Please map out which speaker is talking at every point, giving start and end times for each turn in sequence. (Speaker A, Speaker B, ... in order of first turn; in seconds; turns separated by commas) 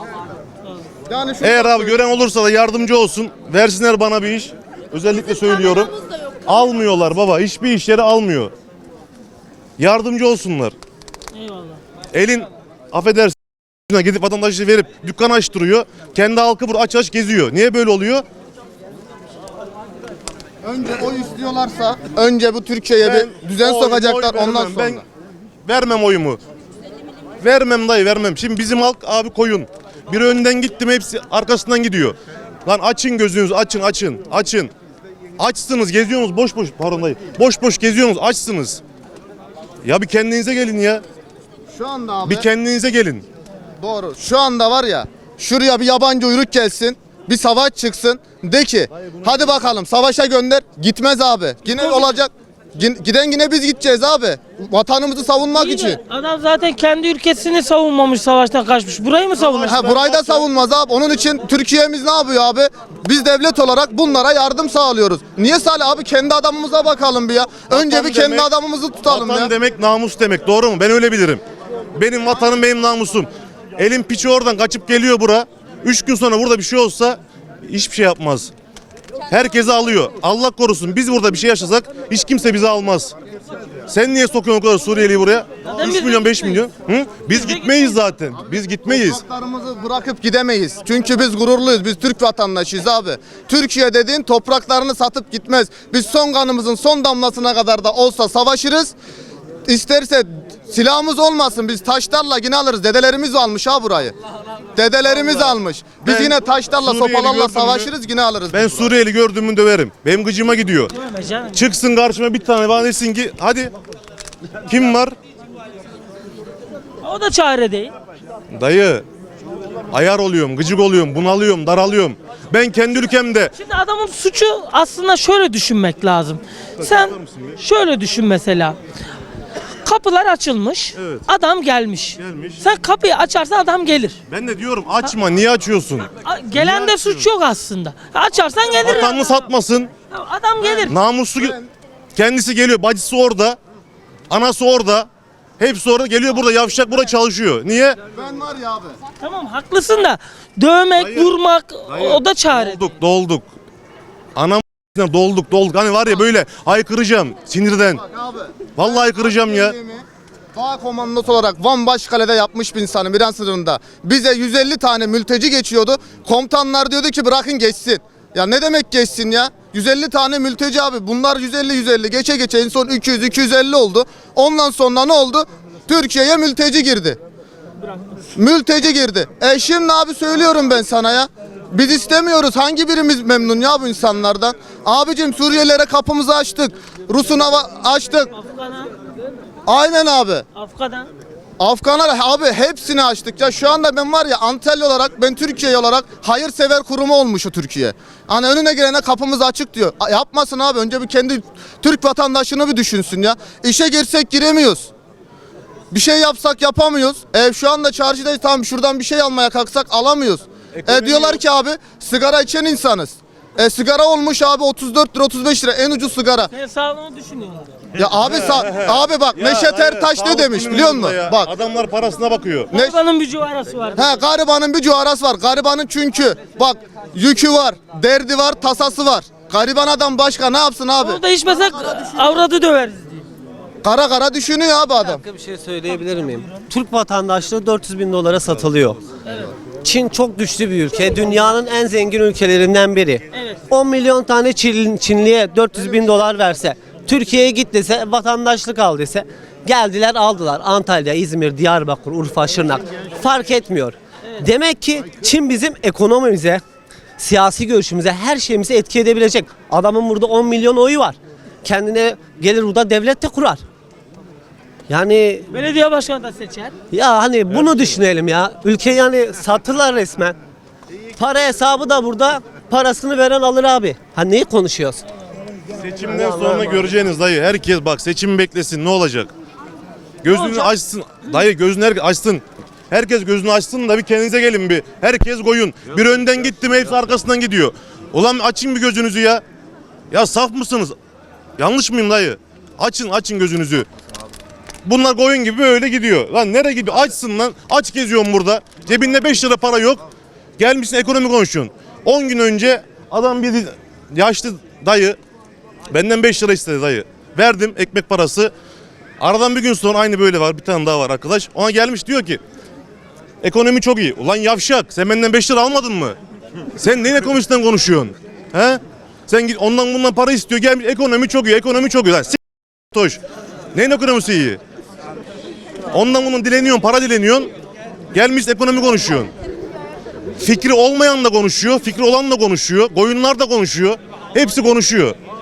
Speaker A: 1.1-2.0, Speaker B: 1.4-5.9, Speaker B: 6.5-8.5, Speaker B: 9.8-10.7, Speaker C: 11.3-11.8, Speaker B: 12.1-13.4, Speaker B: 13.9-18.2, Speaker A: 20.6-25.0, Speaker B: 23.0-25.0, Speaker B: 25.6-26.4, Speaker B: 27.4-34.7, Speaker B: 35.4-38.8, Speaker B: 39.8-41.0, Speaker A: 41.7-42.5, Speaker B: 42.2-43.2, Speaker A: 43.8-56.0, Speaker C: 51.8-52.2, Speaker C: 55.5-59.8, Speaker B: 59.4-60.5, Speaker A: 59.6-69.5, Speaker B: 67.7-68.5, Speaker B: 69.0-71.4, Speaker B: 72.0-78.5, Speaker B: 79.3-83.1, Speaker B: 83.9-89.2, Speaker C: 85.7-86.7, Speaker C: 87.3-88.0, Speaker A: 88.6-98.9, Speaker A: 99.7-104.1, Speaker A: 104.7-108.9, Speaker B: 106.0-107.9, Speaker B: 108.5-110.9, Speaker C: 110.9-111.7, Speaker B: 111.5-113.7, Speaker B: 114.7-115.1, Speaker C: 117.0-117.9, Speaker B: 118.5-119.0, Speaker B: 119.9-123.5, Speaker C: 123.6-128.8, Speaker B: 126.8-127.5, Speaker C: 129.8-134.2, Speaker B: 130.9-131.2, Speaker B: 132.2-132.6, Speaker B: 134.3-137.3, Speaker C: 136.2-139.5, Speaker B: 138.8-139.9, Speaker C: 140.1-140.9, Speaker A: 140.7-141.7, Speaker B: 140.9-141.6, Speaker B: 142.2-143.6, Speaker B: 144.3-145.1, Speaker B: 145.6-148.0, Speaker A: 148.1-149.0, Speaker C: 149.2-152.8, Speaker B: 150.9-151.3, Speaker B: 151.9-153.5, Speaker B: 154.3-158.0, Speaker A: 158.0-160.0, Speaker B: 158.8-159.8, Speaker A: 160.6-177.2, Speaker A: 178.3-188.3, Speaker C: 188.3-188.9, Speaker A: 189.7-190.4, Speaker C: 190.5-191.1, Speaker A: 191.6-204.9, Speaker A: 205.9-216.5, Speaker B: 210.7-211.4, Speaker C: 216.5-217.7, Speaker A: 218.0-221.5, Speaker B: 218.0-222.7, Speaker C: 222.7-224.2, Speaker A: 223.9-231.2, Speaker C: 231.0-233.2, Speaker A: 233.8-235.2, Speaker D: 235.1-239.0, Speaker D: 239.8-256.6, Speaker C: 243.3-243.6, Speaker D: 257.2-263.6, Speaker D: 264.9-265.5, Speaker C: 265.5-266.7, Speaker D: 266.9-270.4, Speaker D: 271.2-275.0, Speaker B: 275.7-279.3, Speaker B: 280.2-289.4, Speaker C: 280.3-280.7, Speaker B: 290.1-290.9, Speaker B: 291.6-293.9, Speaker B: 294.8-300.0, Speaker B: 300.6-305.2, Speaker B: 305.9-308.5, Speaker B: 309.2-312.4, Speaker B: 313.4-316.2, Speaker B: 316.8-322.4, Speaker B: 322.9-323.2, Speaker B: 323.7-324.6, Speaker B: 325.9-327.5, Speaker B: 328.1-329.3, Speaker B: 330.4-335.1